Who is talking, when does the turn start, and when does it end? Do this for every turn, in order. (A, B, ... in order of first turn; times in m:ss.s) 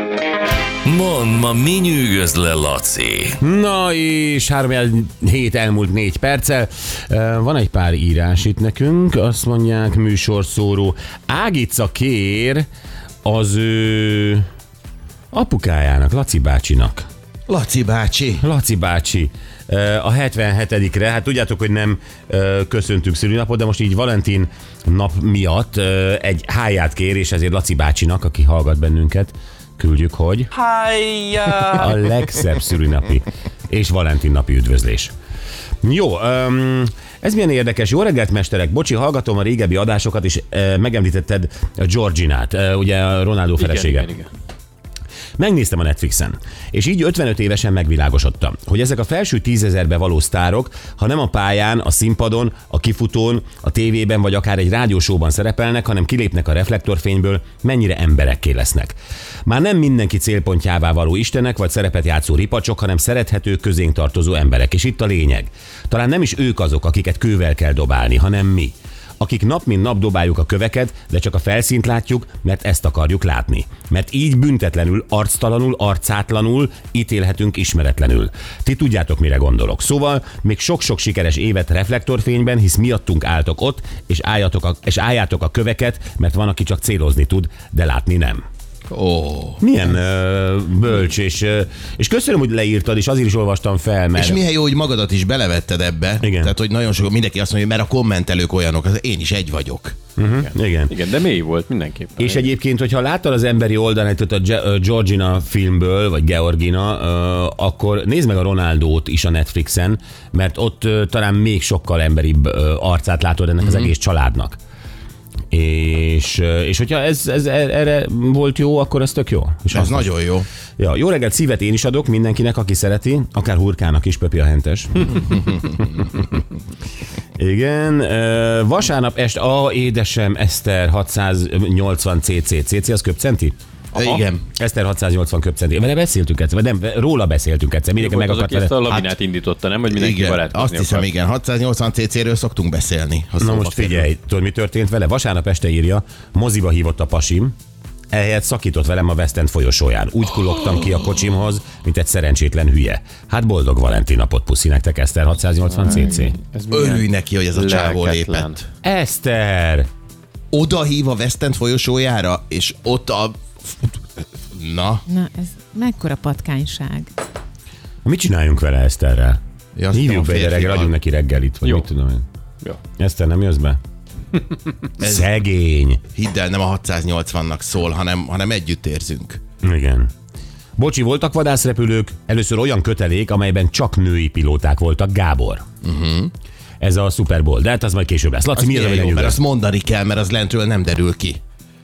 0:00.8-0:03.4 A
0:03.4-0:12.7 B
0:13.2-0:14.4 B
0:15.3-0:17.1 B
0:17.5-0:18.4 C
0:18.4-0:30.5 B
0:30.6-0:31.8 A
0:31.7-0:35.1 B
0:35.8-0:44.1 B
0:43.6-0:44.3 D
0:45.4-1:28.4 B
1:28.9-1:29.6 C
1:29.6-1:34.4 B
1:34.2-1:40.0 C
1:36.2-1:36.5 B
1:40.2-1:40.9 B
1:40.9-1:42.4 D
1:42.2-1:54.6 B
1:53.6-1:53.9 C
1:55.5-2:00.1 B
1:59.7-2:00.5 C
2:00.8-2:05.3 B
2:07.4-2:13.6 B
2:13.9-2:14.4 C
2:14.0-2:14.2 D
2:14.5-2:19.1 B
2:18.0-2:21.1 D
2:19.9-2:24.1 C
2:23.4-2:27.6 B
2:28.1-2:36.4 B
2:35.7-2:38.7 D
2:36.7-2:38.5 C
2:38.8-2:39.9 B
2:40.5-2:45.0 C
2:45.1-2:47.1 E
2:48.0-2:49.4 B
2:49.8-2:50.9 C
2:49.9-2:52.2 B
2:53.0-2:53.8 B
2:55.0-2:55.3 C
2:55.0-2:56.0 B
2:56.1-2:59.4 C
2:59.6-3:00.1 B
3:00.8-3:05.6 B
3:05.8-3:06.3 C
3:06.8-3:09.4 B
3:08.6-3:11.4 C